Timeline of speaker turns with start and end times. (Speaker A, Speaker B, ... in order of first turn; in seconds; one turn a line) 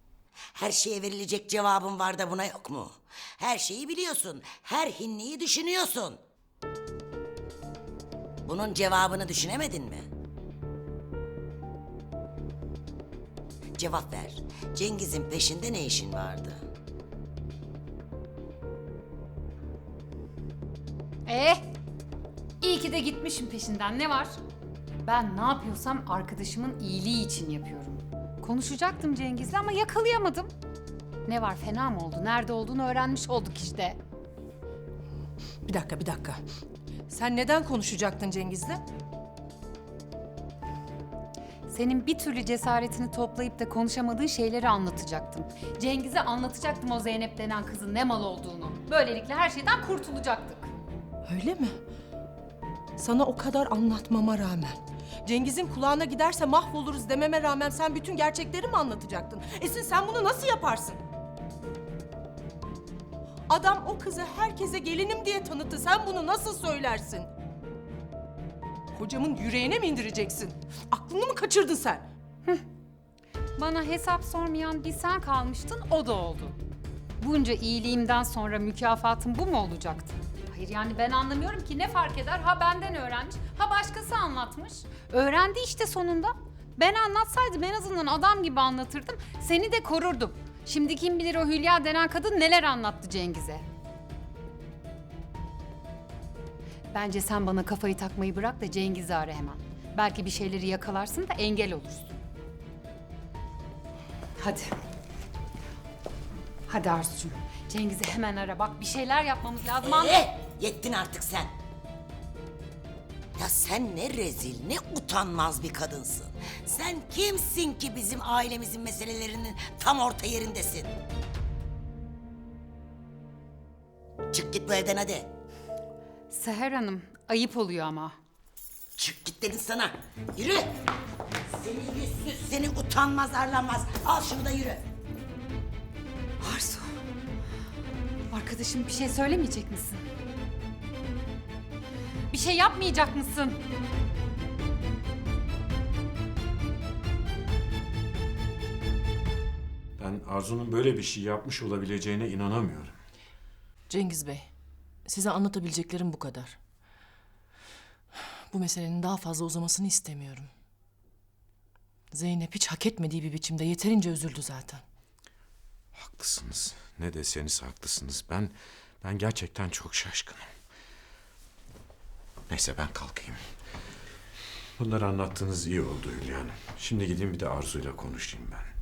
Speaker A: 0.6-6.2
Speaker A: 8.4-10.1
Speaker A: 13.8-16.6
Speaker B: 21.3-21.6
Speaker B: 22.6-24.3
Speaker B: 25.0-30.5
Speaker B: 31.2-34.0
Speaker C: 35.7-36.4
Speaker C: 37.1-38.8
Speaker B: 41.7-50.7
Speaker D: 51.3-51.8
Speaker C: 53.0-61.0
Speaker C: 63.5-67.3
Speaker C: 69.0-72.1
Speaker B: 73.6-76.6
Speaker B: 77.2-93.6
Speaker B: 96.9-102.2
Speaker B: 104.4-104.8
Speaker B: 106.7-110.2
Speaker A: 109.8-111.5
Speaker A: 113.4-120.9
Speaker A: 124.3-125.3
Speaker B: 126.3-128.1
Speaker A: 129.0-130.7
Speaker A: 131.5-134.8
Speaker B: 136.4-136.9
Speaker B: 138.3-140.1
Speaker B: 142.3-143.6
Speaker E: 150.0-153.0
Speaker D: 153.9-154.5
Speaker D: 155.1-156.6
Speaker D: 158.1-160.5
Speaker D: 162.1-164.8
Speaker E: 165.9-170.5
Speaker E: 172.5-173.4
Speaker E: 174.8-178.7